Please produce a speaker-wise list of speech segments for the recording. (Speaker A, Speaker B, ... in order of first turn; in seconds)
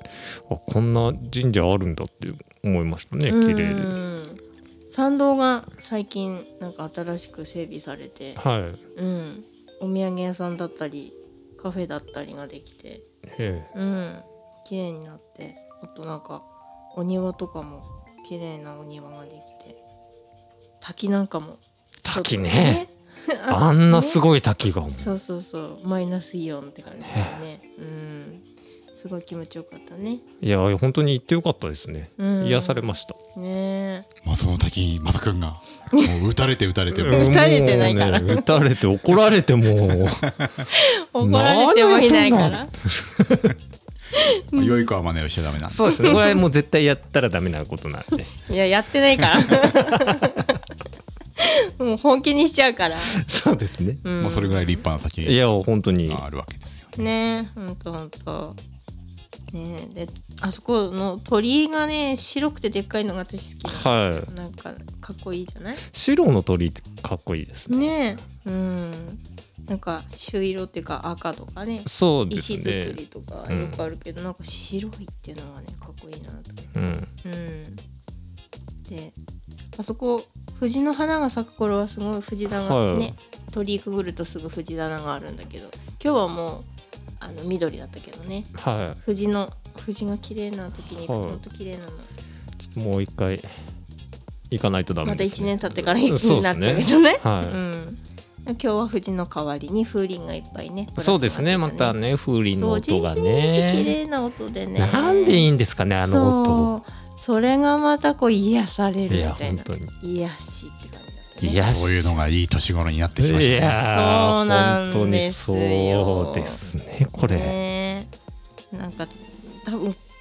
Speaker A: 0.5-4.0, 8.4-8.8, 13.3-13.7, 22.0-22.9, 23.5-25.1, 27.1-27.4, 30.4-33.2, 37.0-40.3, 41.2-43.5, 45.7-48.3, 53.1-54.0, 55.2-56.2, 63.7-64.3, 65.9-68.0, 71.9-73.8, 76.8-77.1, 82.5-83.1, 88.6-89.0, 91.0-91.4, 92.7-93.5, 94.5-97.6, 101.0-103.9, 104.8-106.7, 109.1-109.9, 111.4-112.2, 113.2-117.6
Speaker B: 3.3-8.4, 9.0-13.0, 13.7-19.8, 20.8-24.2, 25.0-28.4, 28.9-30.2, 32.2-34.1, 37.0-38.6, 40.7-42.7, 44.1-44.9, 45.9-46.4, 48.4-50.5, 51.4-53.2, 54.0-54.8, 57.0-58.6, 59.5-65.8, 67.7-76.6, 77.2-77.8, 78.9-79.2, 79.8-86.7, 87.2-88.5, 89.0-92.1, 95.0-102.0, 102.6-111.7, 113.8-116.6, 117.2-118.1, 118.7-120.0
Speaker C: 34.2-37.4, 44.5-46.2, 54.2-55.4, 56.1-57.1, 111.6-113.8